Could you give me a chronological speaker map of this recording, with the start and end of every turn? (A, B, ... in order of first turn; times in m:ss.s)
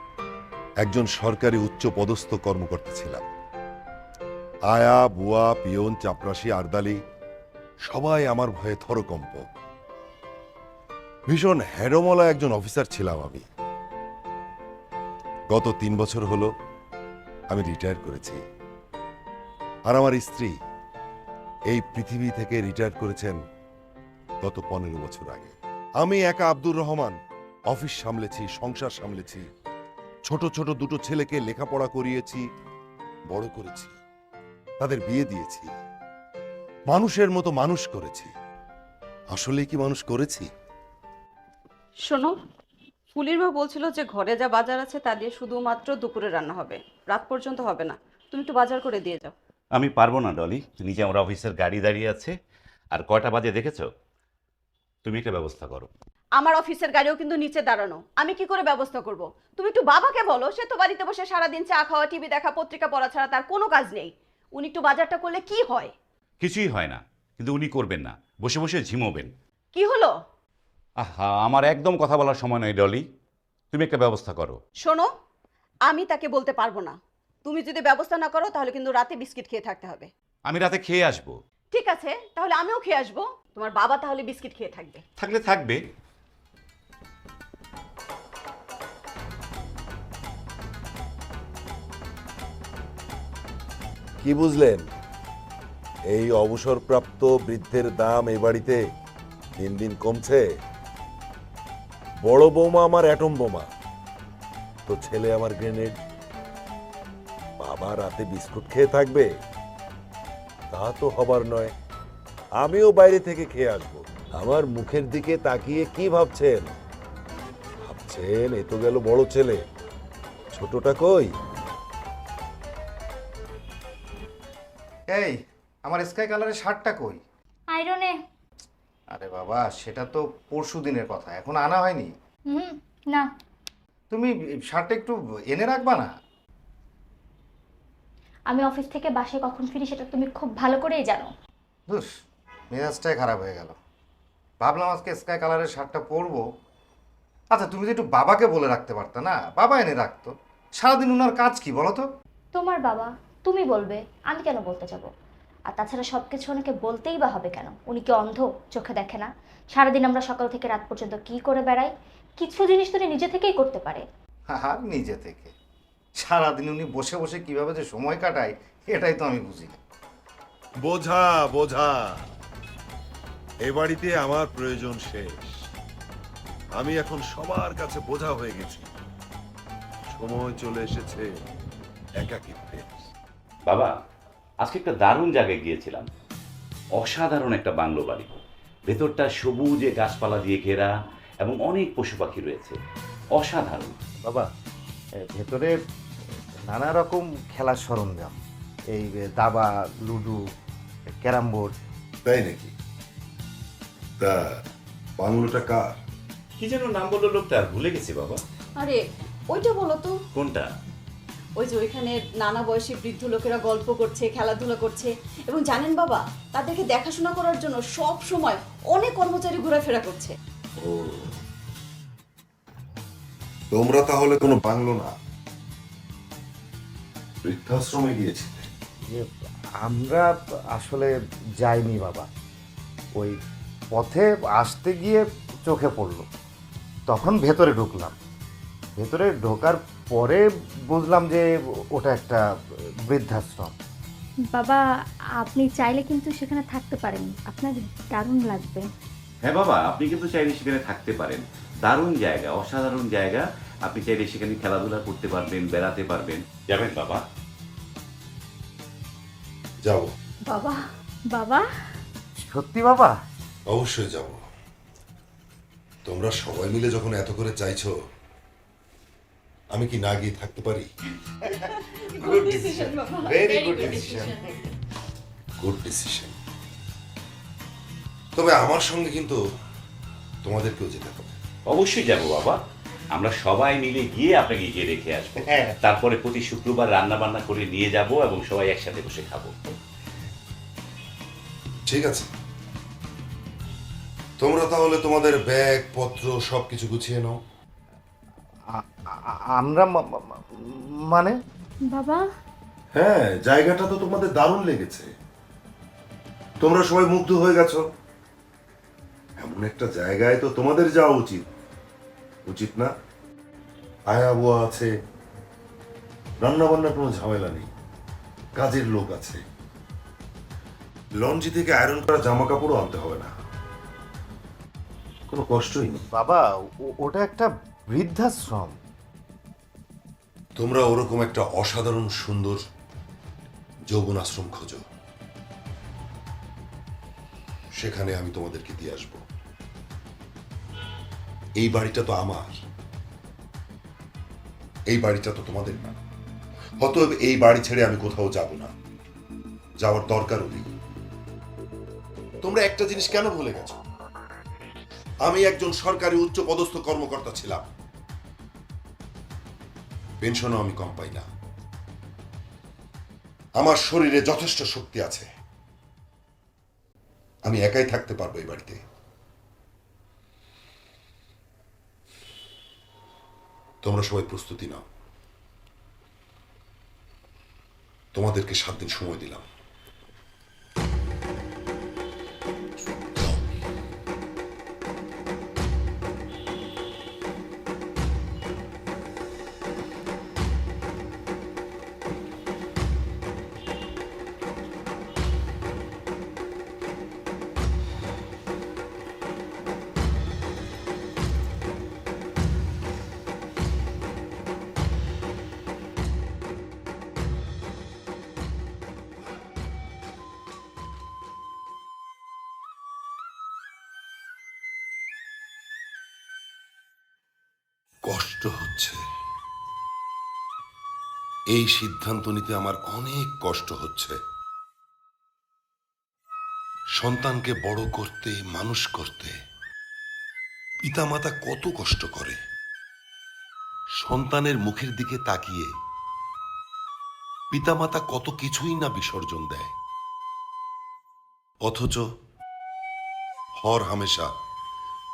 0:00.8-0:03.2 A
0:04.7-0:07.0 A
0:07.9-0:09.5 A
0:11.3-0:13.5 A
0:15.5-0:16.5 A
0:17.5-0:18.4 A
0:19.9-0:20.5 A
0:21.7-0:23.4 A
0:24.4-0:27.2 A
0:27.7-0:29.5 A
0:30.3-0:32.4 A
0:33.3-0:34.0 A
0:34.8-0:35.7 A
0:36.9-0:38.3 A
0:39.3-0:40.5 A
0:42.1-0:42.4 B
0:43.2-0:49.3 B
0:49.8-0:52.4 C
0:52.9-0:53.9 C
0:55.0-0:55.9 C
0:56.4-1:05.9 B
1:06.4-1:09.3 C
1:09.7-1:10.1 B
1:11.0-1:13.0 C
1:13.7-1:14.6 C
1:14.8-1:15.1 B
1:15.9-1:20.1 B
1:20.5-1:21.4 C
1:21.7-1:25.0 B
1:25.2-1:25.8 C
1:34.2-1:34.9 A
1:36.1-1:38.8 A
1:39.6-1:40.4 A
1:42.2-1:43.7 A
1:44.9-1:46.0 A
1:47.6-1:49.3 A
1:50.7-1:51.7 A
1:52.6-1:56.7 A
1:57.9-1:59.6 A
2:00.5-2:01.3 A
2:05.1-2:07.2 D
2:07.7-2:08.2 E
2:09.1-2:12.1 D
2:12.5-2:13.2 E
2:14.1-2:16.1 D
2:18.5-2:21.3 E
2:22.7-2:23.8 D
2:24.6-2:26.4 D
2:27.5-2:32.0 D
2:32.5-2:35.1 E
2:35.7-2:44.0 E
2:44.5-2:45.5 D
2:46.2-2:49.8 D
2:50.8-2:52.1 A
2:53.6-2:55.5 A
2:56.8-2:58.9 A
3:00.1-3:01.3 A
3:02.2-3:02.9 A
3:03.7-3:03.9 C
3:04.6-3:06.0 C
3:07.0-3:08.3 C
3:08.9-3:10.9 C
3:11.4-3:12.8 C
3:13.4-3:14.0 C
3:15.2-3:15.8 D
3:16.7-3:18.4 D
3:18.9-3:20.4 D
3:21.2-3:21.7 D
3:22.2-3:22.7 A
3:24.2-3:24.5 A
3:25.2-3:25.9 A
3:26.6-3:28.4 C
3:28.8-3:30.2 B
3:30.4-3:30.7 C
3:31.6-3:40.4 B
3:40.8-3:41.4 A
3:43.7-3:45.1 A
3:47.4-3:48.7 A
3:49.8-3:52.3 D
3:53.9-3:56.3 D
3:57.1-3:58.2 D
3:59.0-4:02.4 D
4:03.1-4:03.8 D
4:04.5-4:04.8 E
4:05.4-4:08.9 E
4:09.4-4:17.2 C
4:19.8-4:20.1 A
4:20.5-4:20.8 E
4:21.3-4:21.6 E
4:22.4-4:23.2 D
4:23.7-4:24.4 A
4:26.0-4:27.9 A
4:29.7-4:30.9 A
4:31.5-4:34.6 D
4:32.2-4:34.0 B
4:35.6-4:36.4 A
4:38.4-4:39.4 A
4:40.4-4:41.4 A
4:41.7-4:42.6 C
4:43.1-4:49.5 C
4:45.5-4:45.8 D
4:51.9-4:52.3 A
4:54.4-4:57.4 A
4:58.7-5:01.4 D
5:01.9-5:02.2 E
5:02.9-5:05.1 A
5:06.6-5:07.9 A
5:09.4-5:11.5 A
5:12.5-5:12.9 A
5:14.1-5:14.9 A
5:16.4-5:17.7 A
5:18.6-5:19.4 A
5:21.2-5:23.3 A
5:25.3-5:26.1 A
5:26.2-5:28.8 D
5:30.6-5:32.6 A
5:33.9-5:34.8 A
5:37.7-5:39.2 A
5:41.6-5:42.6 A
5:44.9-5:46.0 A
5:46.8-5:48.7 A
5:49.8-5:50.7 A
5:52.4-5:53.8 A
5:55.2-5:57.7 A
6:00.2-6:01.3 A
6:03.6-6:05.2 A
6:07.4-6:08.8 A
6:13.8-6:14.8 A
6:18.1-6:19.4 A
6:23.2-6:23.4 A
6:58.1-6:59.0 A
7:01.5-7:04.2 A
7:07.0-7:09.3 A
7:10.8-7:12.4 A
7:14.0-7:15.7 A
7:17.5-7:19.7 A
7:21.6-7:22.0 A
7:23.6-7:24.3 A